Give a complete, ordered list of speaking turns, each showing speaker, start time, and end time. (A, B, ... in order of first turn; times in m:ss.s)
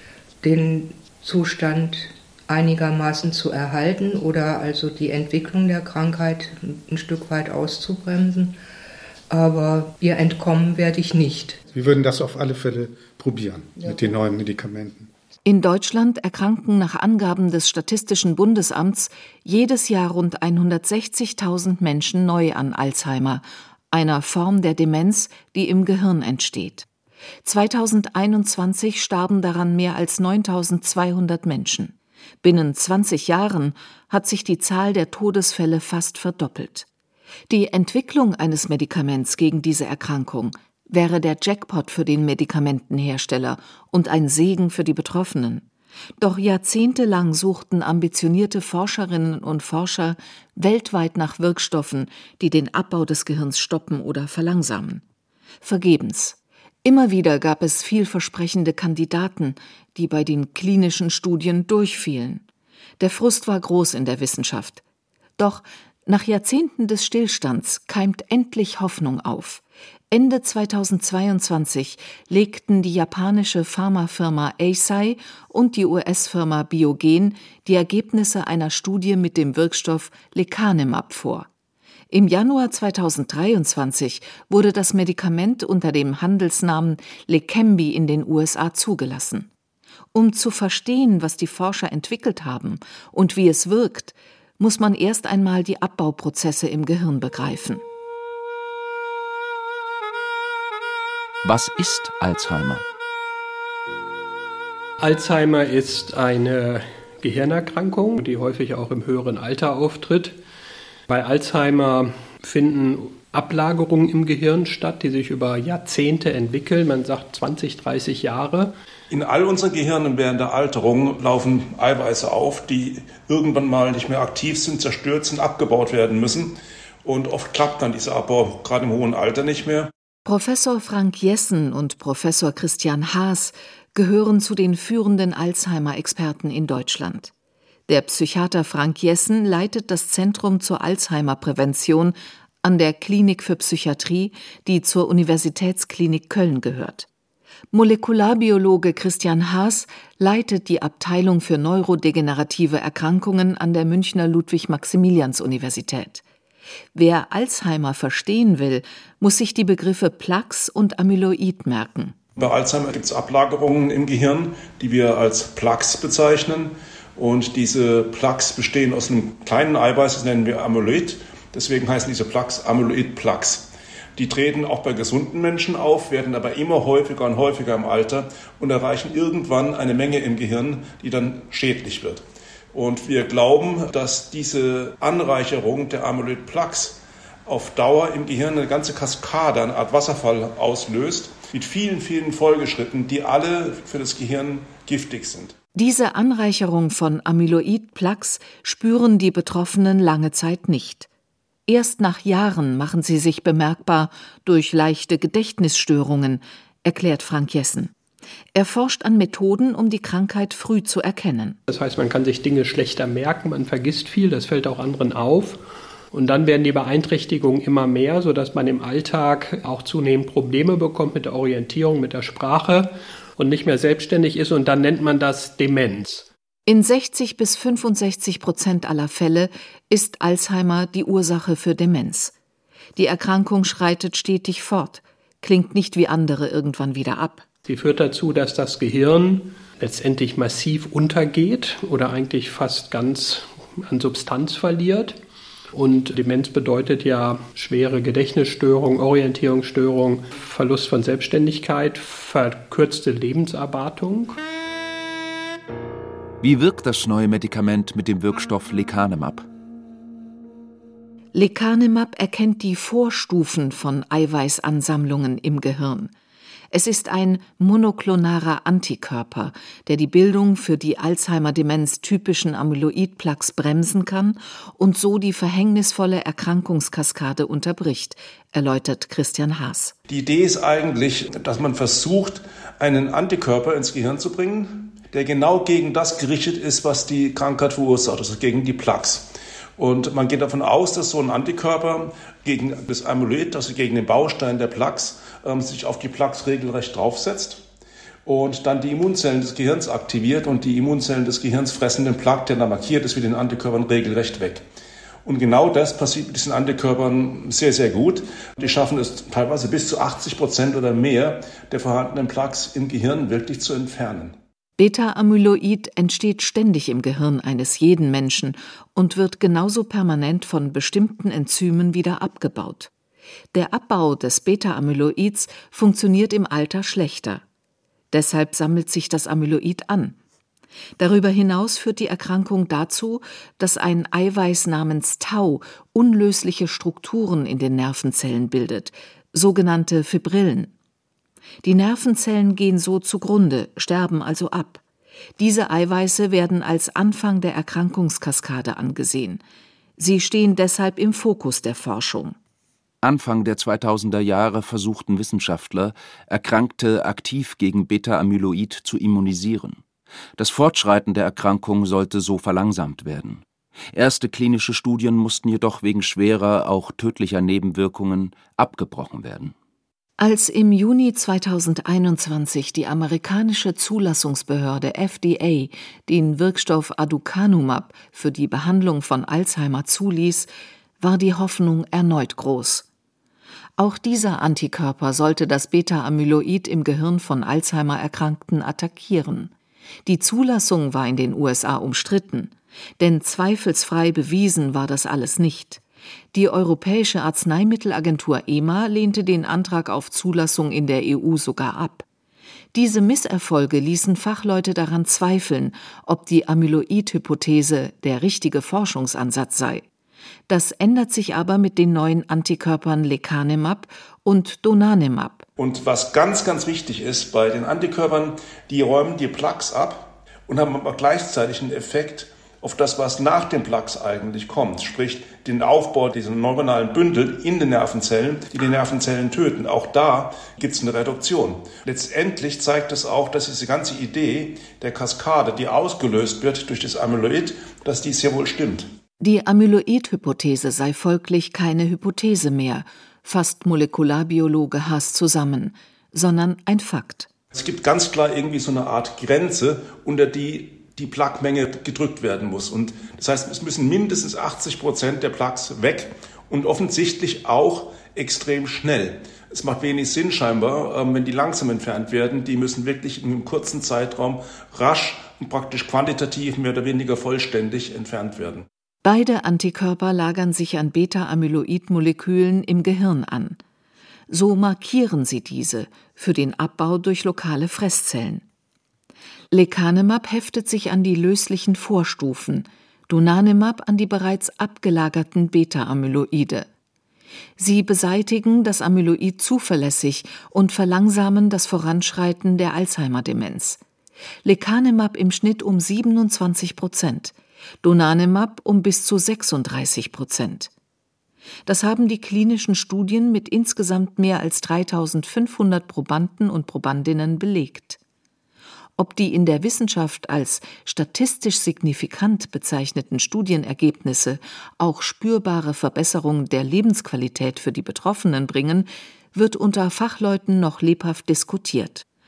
0:00.4-0:08.6 A
0:09.3-0:11.6 A
0:11.7-0:15.1 B
0:13.8-0:14.1 A
0:15.4-0:26.8 C
0:27.4-0:36.9 C
0:37.5-0:45.6 C
0:46.2-0:55.0 C
0:55.6-1:02.4 C
1:03.0-1:04.8 C
1:05.4-1:21.5 C
1:22.1-1:29.5 C
1:30.1-1:37.8 C
1:41.4-1:42.8 D
1:45.0-1:50.4 E
1:51.1-1:58.7 E
1:59.1-2:09.9 F
2:10.2-2:17.3 C
2:17.9-2:27.1 C
2:27.7-2:36.2 C
2:36.9-2:42.1 C
2:42.4-3:15.5 F
3:15.7-3:21.1 C
3:21.7-3:27.9 C
3:28.5-3:31.6 C
3:31.7-3:35.6 E
3:36.1-3:46.3 E
3:46.6-3:52.3 C
3:53.0-3:57.4 C
3:57.6-4:05.2 E
4:05.7-4:14.4 E
4:16.4-4:19.4 D
4:21.3-4:26.1 C
4:26.7-4:39.9 C
4:40.1-4:57.6 F
4:58.2-5:04.6 F
5:05.2-5:14.4 F
5:14.8-5:22.9 C
5:23.5-5:27.4 C
5:28.1-5:30.2 C
5:31.0-5:40.7 C
5:41.6-5:44.8 C
5:45.4-5:49.4 C
5:50.0-5:52.4 C
5:53.0-5:59.8 D
6:00.4-6:03.4 D
6:03.9-6:09.5 D
6:10.2-6:20.5 C
6:21.0-6:22.8 C
6:23.8-6:29.5 C
6:30.0-6:35.8 C
6:36.3-6:42.0 C
6:42.7-6:49.8 C
6:50.5-6:55.4 C
6:55.6-7:18.9 F
7:19.2-7:27.3 C
7:27.5-7:48.6 F
7:49.0-7:53.6 C
7:54.3-7:58.4 C
7:59.5-8:06.7 C
8:07.6-8:13.8 C
8:14.4-8:20.7 C
8:21.6-8:28.0 C
8:29.0-8:42.0 C